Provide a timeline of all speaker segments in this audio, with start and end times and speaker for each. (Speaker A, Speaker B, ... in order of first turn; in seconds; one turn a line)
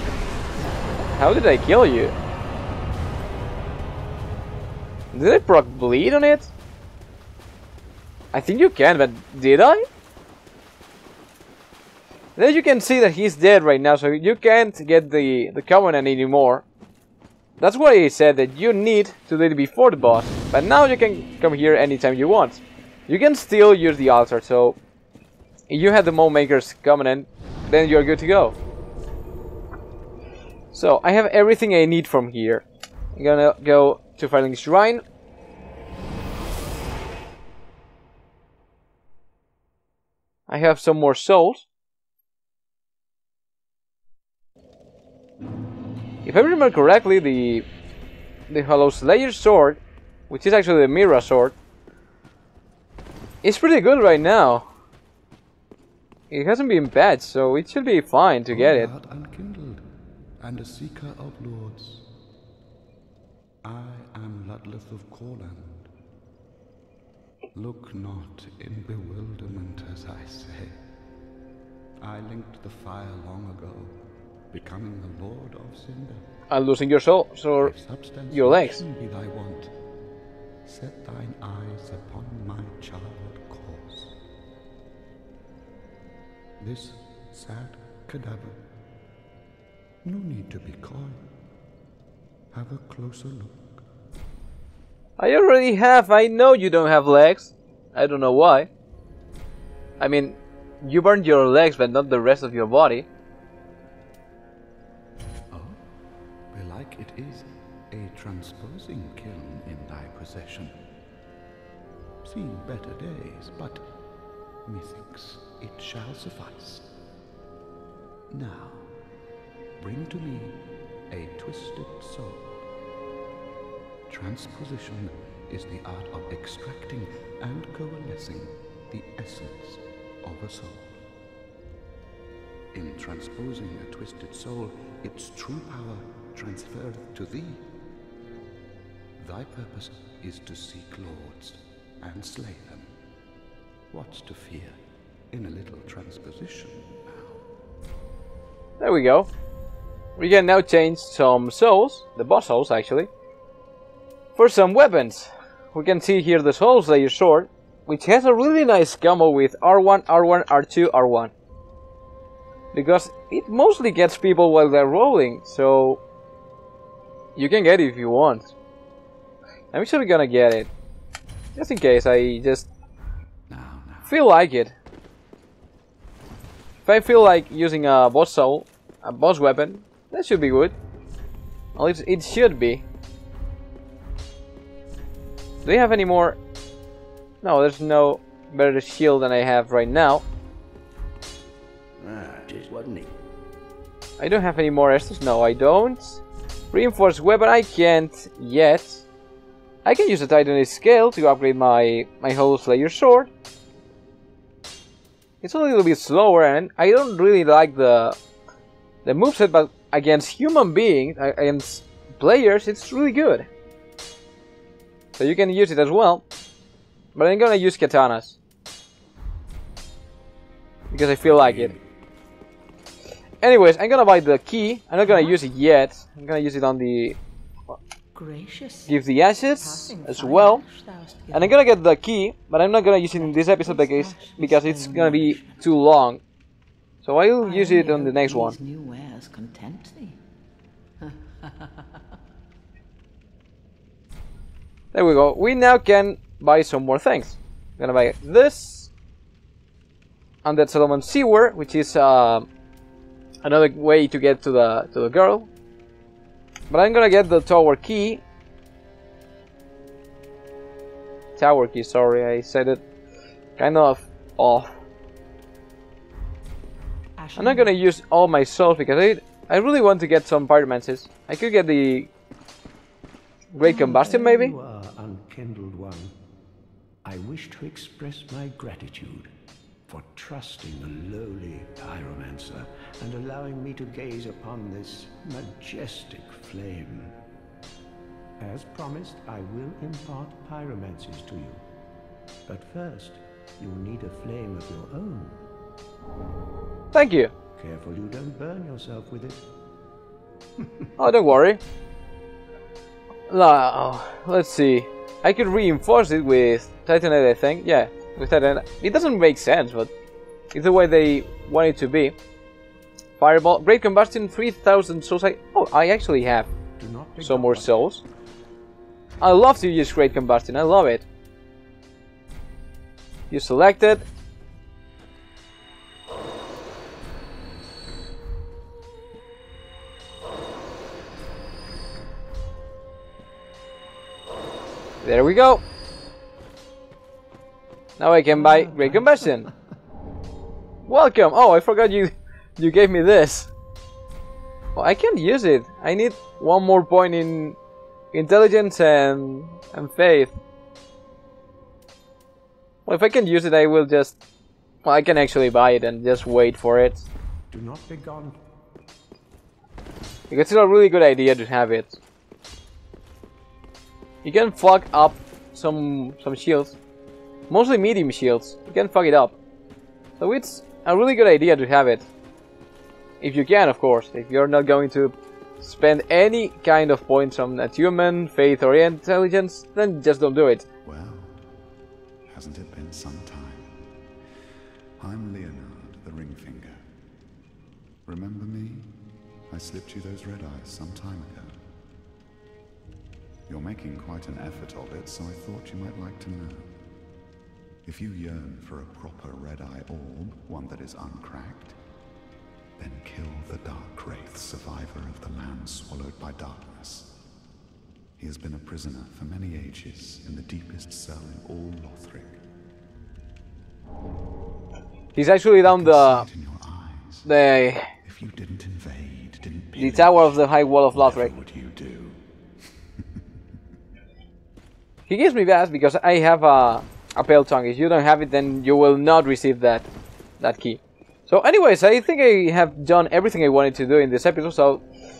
Speaker A: 1.1-2.1
Speaker A: 5.1-6.5
Speaker A: 8.3-9.8
Speaker A: 12.4-16.6
Speaker A: 17.6-24.8
Speaker A: 25.7-28.6
Speaker A: 30.7-32.6
Speaker A: 33.2-35.0
Speaker A: 40.5-41.6
Speaker A: 46.2-47.7
Speaker A: 48.5-51.6
Speaker A: 53.4-54.7
Speaker A: 56.3-58.9
Speaker B: 58.5-59.9
Speaker B: 60.4-62.1
Speaker B: 63.6-65.9
Speaker B: 67.5-70.8
Speaker B: 72.0-74.0
Speaker B: 74.5-76.3
Speaker A: 76.5-77.7
Speaker B: 77.6-79.7
Speaker A: 78.3-78.8
Speaker B: 80.7-84.2
Speaker B: 86.6-88.6
Speaker B: 90.0-91.2
Speaker B: 92.5-93.8
Speaker A: 95.2-98.7
Speaker A: 100.0-103.1
Speaker B: 105.5-105.8
Speaker B: 106.5-110.8
Speaker B: 112.2-113.9
Speaker B: 114.7-116.9
Speaker B: 118.3-118.9
Speaker B: 119.8-122.6
Speaker B: 124.1-131.1
Speaker B: 132.7-137.7
Speaker B: 139.2-142.9
Speaker B: 143.9-144.8
Speaker B: 145.3-147.4
Speaker A: 148.8-149.3
Speaker A: 150.2-153.1
Speaker A: 154.4-161.3
Speaker A: 162.7-166.0
Speaker A: 167.4-168.5
Speaker A: 169.7-170.7
Speaker A: 171.6-172.7
Speaker B: 173.5-174.2
Speaker A: 174.1-174.7
Speaker A: 176.9-180.8
Speaker A: 181.8-182.8
Speaker A: 185.7-186.4
Speaker A: 187.4-190.2
Speaker C: 192.1-193.1
Speaker A: 194.2-196.2
Speaker A: 196.7-199.0
Speaker A: 199.8-203.3
Speaker A: 205.4-208.2
Speaker A: 209.1-213.5
Speaker A: 215.2-216.2
Speaker A: 217.2-218.4
Speaker A: 220.9-221.7
Speaker B: 221.2-221.8
Speaker A: 223.4-227.2
Speaker D: 225.0-225.5
Speaker D: 228.1-231.6
Speaker A: 228.9-230.6
Speaker A: 231.3-236.2
Speaker D: 233.1-235.7
Speaker A: 237.0-238.6
Speaker D: 237.4-240.2
Speaker D: 241.0-241.9
Speaker A: 244.9-248.9
Speaker A: 250.4-252.5
Speaker A: 253.4-255.5
Speaker A: 256.7-258.2
Speaker A: 261.4-262.8
Speaker A: 263.6-264.7
Speaker D: 267.2-267.8
Speaker A: 267.4-272.1
Speaker A: 273.5-274.5
Speaker C: 273.6-276.1
Speaker C: 277.1-279.3
Speaker C: 279.9-287.2
Speaker C: 288.4-291.6
Speaker C: 292.5-295.5
Speaker A: 296.9-297.3
Speaker C: 297.6-299.5
Speaker C: 300.6-300.9
Speaker A: 301.0-301.6
Speaker A: 303.3-309.9
Speaker A: 310.5-312.1
Speaker A: 313.2-316.5
Speaker C: 316.8-317.9
Speaker A: 317.2-318.0
Speaker A: 319.2-321.1
Speaker A: 323.3-324.1
Speaker A: 335.0-335.6
Speaker A: 338.0-339.5
Speaker C: 338.4-339.4
Speaker A: 340.9-343.5
Speaker A: 344.8-347.6
Speaker A: 348.1-350.4
Speaker A: 352.9-354.2
Speaker A: 354.9-357.1
Speaker C: 357.5-358.4
Speaker A: 360.3-362.0
Speaker A: 364.2-366.8
Speaker A: 367.5-369.4
Speaker A: 370.2-372.1
Speaker A: 373.2-380.6
Speaker B: 380.8-381.4
Speaker B: 382.3-383.8
Speaker B: 385.0-386.8
Speaker B: 388.1-388.9
Speaker B: 389.5-391.6
Speaker B: 393.5-396.7
Speaker B: 397.9-401.8
Speaker B: 402.8-407.1
Speaker B: 408.2-412.4
Speaker A: 415.1-416.3
Speaker B: 415.6-417.3
Speaker A: 417.2-417.9
Speaker B: 418.0-422.2
Speaker A: 419.8-421.3
Speaker A: 425.1-429.9
Speaker A: 430.4-434.8